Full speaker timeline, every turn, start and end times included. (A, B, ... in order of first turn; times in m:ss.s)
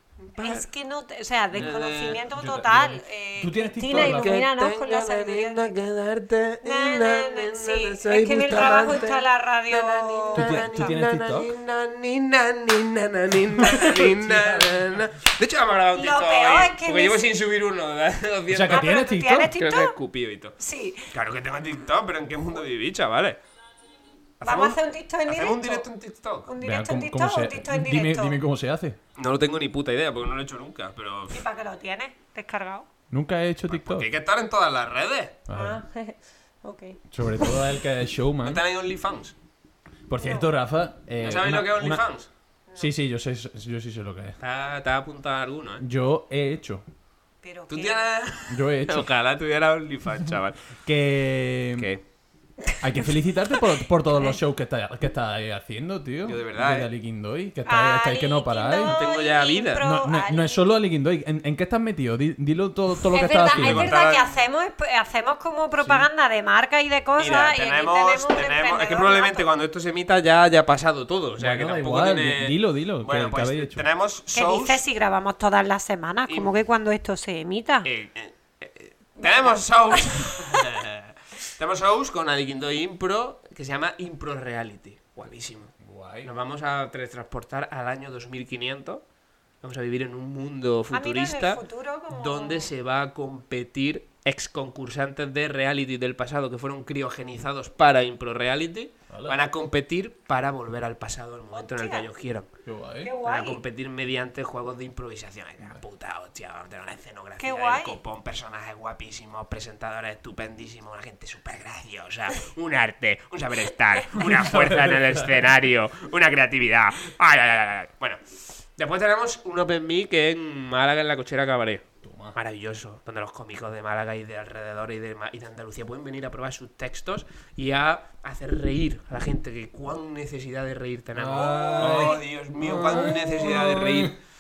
0:00.2-0:00.7 A
0:00.4-0:05.8 B
0:01.5-0:04.4 C
0:01.6-0:02.2 A
0:03.9-0:18.9 A
0:06.6-0:10.9 B
0:10.4-0:11.5 C
0:13.6-0:15.0 C
0:16.0-0:17.3 B
0:18.5-0:19.5 C
0:18.7-0:20.0 B
0:19.6-0:20.6 A
0:20.6-0:21.1 B
0:21.1-0:23.4 A
0:24.4-0:26.5 A
0:24.4-0:25.9 B
0:26.5-0:28.4 B
0:26.6-0:29.0 C
0:29.2-0:31.4 A
0:31.3-0:32.9 B
0:33.1-0:34.1 C
0:33.7-0:35.4 A
0:35.5-0:35.8 C
0:35.5-0:37.6 B
0:37.1-0:38.6 C
0:38.4-0:39.4 A
0:40.1-0:42.1 C
0:40.2-0:40.5 B
0:41.2-0:42.3 A
0:42.7-0:42.9 B
0:42.8-0:44.4 C
0:44.4-0:45.8 A
0:45.8-0:46.8 C
0:47.4-0:48.1 B
0:47.7-0:50.6 A
0:48.5-0:49.1 C
0:50.8-0:51.9 C
0:51.8-0:52.0 A
0:52.8-0:59.0 C
0:56.2-0:56.9 A
0:57.7-1:00.6 B
0:58.8-0:59.8 A
0:59.8-1:03.9 C
1:03.1-1:09.5 B
1:03.5-1:04.3 A
1:05.8-1:06.1 C
1:07.2-1:14.8 A
1:11.4-1:13.9 C
1:14.3-1:17.9 B
1:17.8-1:29.0 A
1:19.2-1:20.6 B
1:25.8-1:26.3 C
1:29.6-1:42.5 A
1:30.9-1:32.7 B
1:39.1-1:39.4 C
1:41.5-1:42.1 B
1:42.6-1:43.1 C
1:43.0-1:43.6 B
1:43.2-2:01.8 A
1:47.4-1:48.0 B
1:54.2-1:55.4 C
2:02.0-2:02.4 C
2:02.4-2:14.2 A
2:11.2-2:14.1 C
2:11.6-2:12.2 B